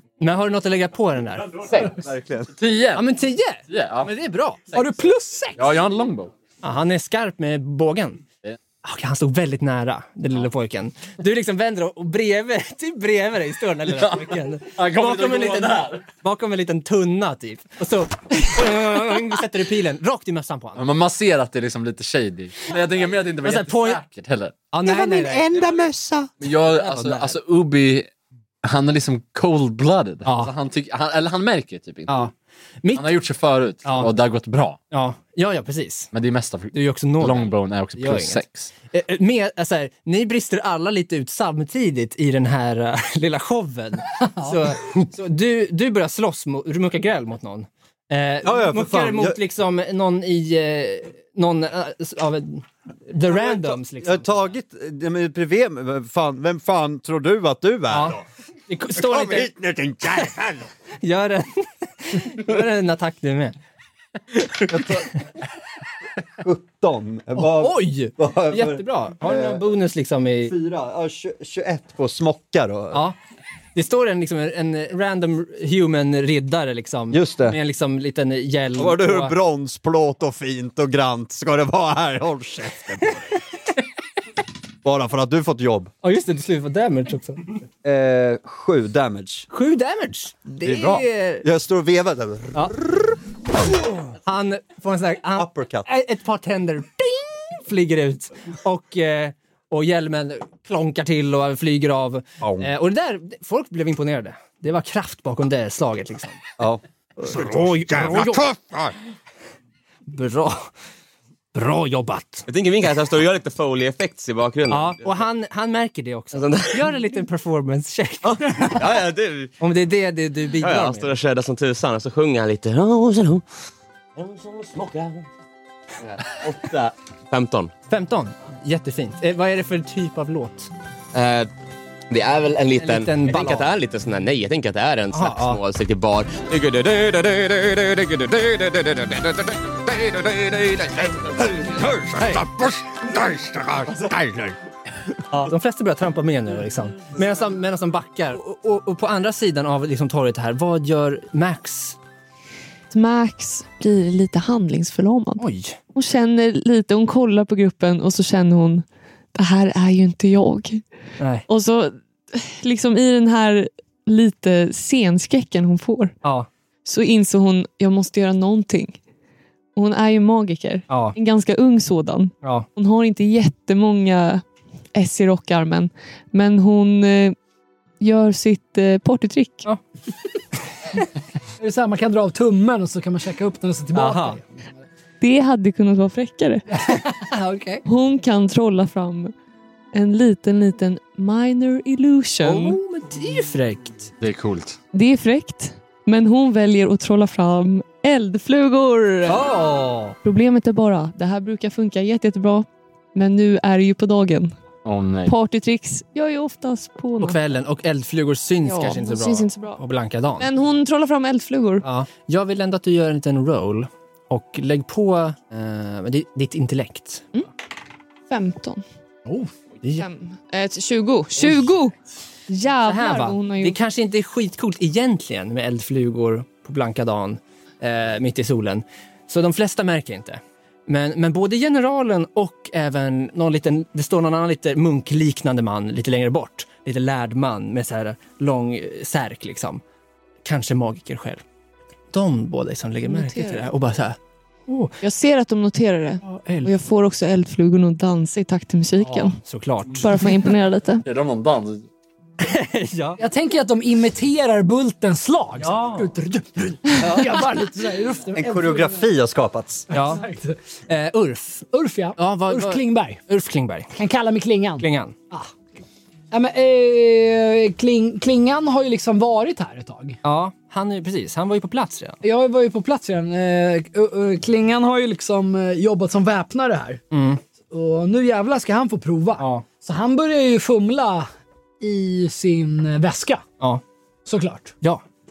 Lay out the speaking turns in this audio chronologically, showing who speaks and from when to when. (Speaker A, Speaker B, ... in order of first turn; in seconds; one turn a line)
Speaker A: 0.2-1.7
Speaker B: 1.7-1.9
Speaker C: 1.9-2.5
Speaker B: 2.6-3.0
Speaker A: 2.9-4.6
Speaker B: 3.7-4.1
Speaker D: 4.7-5.7
Speaker B: 5.5-6.3
Speaker A: 6.6-8.2
Speaker A: 8.8-20.8
Speaker B: 14.7-16.0
Speaker B: 20.8-24.6
Speaker A: 23.4-24.0
Speaker A: 24.7-25.7
Speaker C: 24.9-26.3
Speaker B: 26.4-28.1
Speaker A: 26.7-27.4
Speaker B: 28.6-32.3
Speaker A: 30.2-30.5
Speaker A: 32.1-32.3
Speaker A: 32.8-33.1
Speaker B: 32.9-34.8
Speaker A: 33.8-34.1
Speaker A: 34.9-36.1
Speaker B: 36.1-38.7
Speaker A: 36.7-54.5
Speaker C: 48.4-49.4
Speaker C: 53.3-58.2
Speaker A: 57.9-59.5
Speaker C: 58.9-60.7
Speaker A: 61.0-63.6
Speaker A: 64.5-64.8
Speaker C: 64.6-65.2
Speaker C: 66.4-69.7
Speaker A: 67.4-70.5
Speaker C: 70.4-73.1
Speaker A: 72.9-73.2
Speaker A: 73.7-79.3
Speaker C: 77.1-77.6
Speaker C: 78.8-83.4
Speaker C: 84.8-85.9
Speaker A: 86.0-87.6
Speaker C: 87.8-89.5
Speaker A: 89.5-91.5
Speaker C: 90.6-93.0
Speaker A: 93.9-106.4
Speaker C: 95.3-95.9
Speaker C: 102.4-102.7
Speaker C: 106.6-108.9
Speaker A: 107.2-108.5
Speaker A: 110.1-110.7
Speaker A: 111.5-112.5
Speaker E: 112.5-115.2
Speaker A: 114.7-118.9
Speaker E: 116.3-116.8
Speaker E: 118.2-119.5
Speaker A: 119.6-121.1
Speaker E: 120.5-123.4
Speaker E: 124.2-125.3
Speaker E: 126.0-127.7
Speaker A: 127.9-130.7
Speaker E: 131.1-131.5
Speaker E: 132.1-141.5
Speaker A: 132.8-133.7
Speaker A: 135.1-135.6
Speaker C: 141.2-144.6
Speaker A: 142.2-142.4
Speaker A: 145.3-152.0
Speaker F: 152.9-160.8
Speaker A: 155.4-155.8
Speaker A: 161.2-161.5
Speaker F: 161.5-166.2
Speaker A: 166.2-166.5
Speaker F: 166.8-169.0
Speaker F: 169.8-174.4
Speaker A: 170.9-171.2
Speaker F: 174.9-177.3
Speaker F: 178.0-179.7
Speaker D: 181.6-184.7
Speaker A: 183.9-184.4
Speaker F: 185.2-186.8
Speaker D: 186.7-187.8
Speaker F: 187.9-189.3
Speaker F: 189.9-192.8
Speaker A: 192.4-194.1
Speaker B: 194.2-194.8
Speaker F: 194.9-199.4
Speaker A: 199.3-200.2
Speaker F: 200.2-204.5
Speaker B: 204.8-205.3
Speaker F: 205.3-207.4
Speaker A: 207.2-210.5
Speaker F: 208.6-209.8
Speaker F: 210.4-211.8
Speaker A: 211.8-217.3
Speaker F: 218.3-218.8
Speaker F: 220.0-221.9
Speaker F: 222.5-223.8
Speaker A: 222.8-239.8
Speaker A: 240.4-241.4
Speaker A: 242.1-245.0
Speaker F: 243.1-243.6
Speaker F: 245.0-249.4
Speaker A: 246.2-246.7
Speaker A: 249.4-250.1
Speaker F: 250.0-251.0
Speaker B: 251.0-251.9
Speaker A: 252.4-253.2
Speaker D: 253.2-259.0
Speaker A: 255.6-256.1
Speaker C: 258.3-259.9
Speaker A: 259.9-260.2
Speaker D: 259.9-260.6
Speaker A: 260.9-263.9
Speaker D: 261.7-263.2
Speaker D: 263.9-265.5
Speaker A: 264.8-265.1
Speaker D: 266.3-270.2
Speaker A: 270.2-272.2
Speaker D: 272.2-277.0
Speaker A: 277.1-277.4
Speaker D: 277.7-281.3
Speaker A: 279.4-279.6
Speaker D: 281.8-283.4
Speaker D: 284.2-284.7